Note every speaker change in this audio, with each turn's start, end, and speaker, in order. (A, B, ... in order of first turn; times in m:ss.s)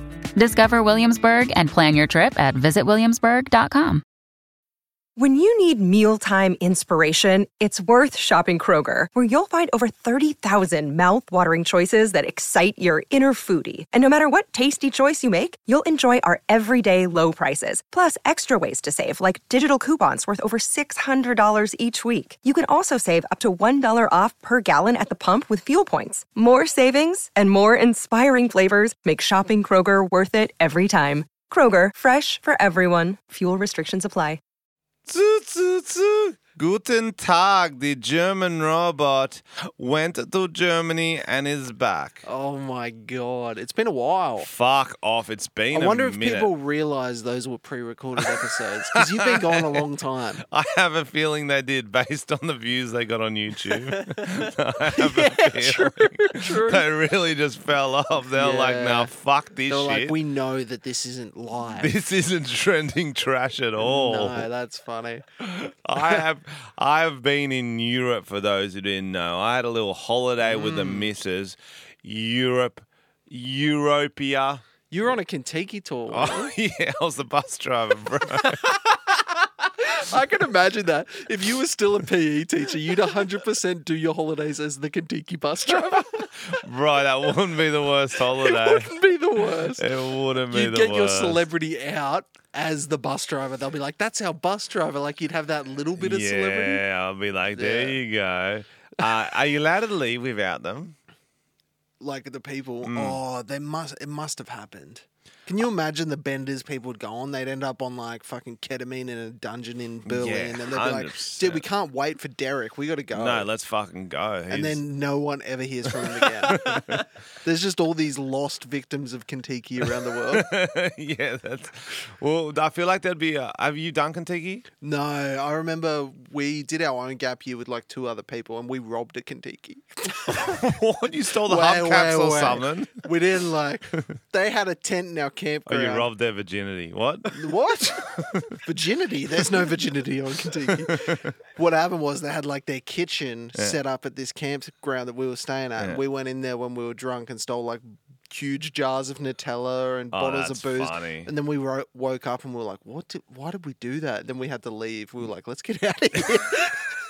0:00.4-0:04.0 A
0:05.2-0:34.4 B
0:35.1-0:42.2 C
0:42.2-0:44.5 D
0:44.4-0:46.5 C
0:45.7-0:50.4 D
0:49.0-0:49.8 C
0:50.5-1:00.2 C
0:54.9-0:56.8 D
0:58.4-0:59.1 D
0:59.7-1:02.0 D
1:01.7-1:04.5 C
1:03.8-1:05.2 D
1:05.4-1:14.6 C
1:10.4-1:11.1 D
1:14.9-1:16.5 D
1:16.1-1:18.7 C
1:18.4-1:18.9 D
1:19.8-1:26.3 D
1:25.9-1:28.9 C
1:28.4-1:29.8 D
1:29.8-1:31.5 C
1:30.5-1:36.8 D
1:36.0-1:41.0 C
1:37.6-1:38.0 D
1:42.0-1:53.5 D
1:42.8-1:43.2 C
1:50.0-1:51.6 C
1:53.1-1:54.8 C
1:54.5-2:00.5 D
1:55.9-1:57.0 C
2:00.3-2:04.7 C
2:04.8-2:10.6 D
2:10.3-2:13.1 C
2:11.4-2:16.1 D
2:13.9-2:14.2 C
2:15.7-2:18.5 C
2:17.3-2:36.9 D
2:20.6-2:21.3 C
2:25.8-2:26.0 C
2:30.1-2:31.3 C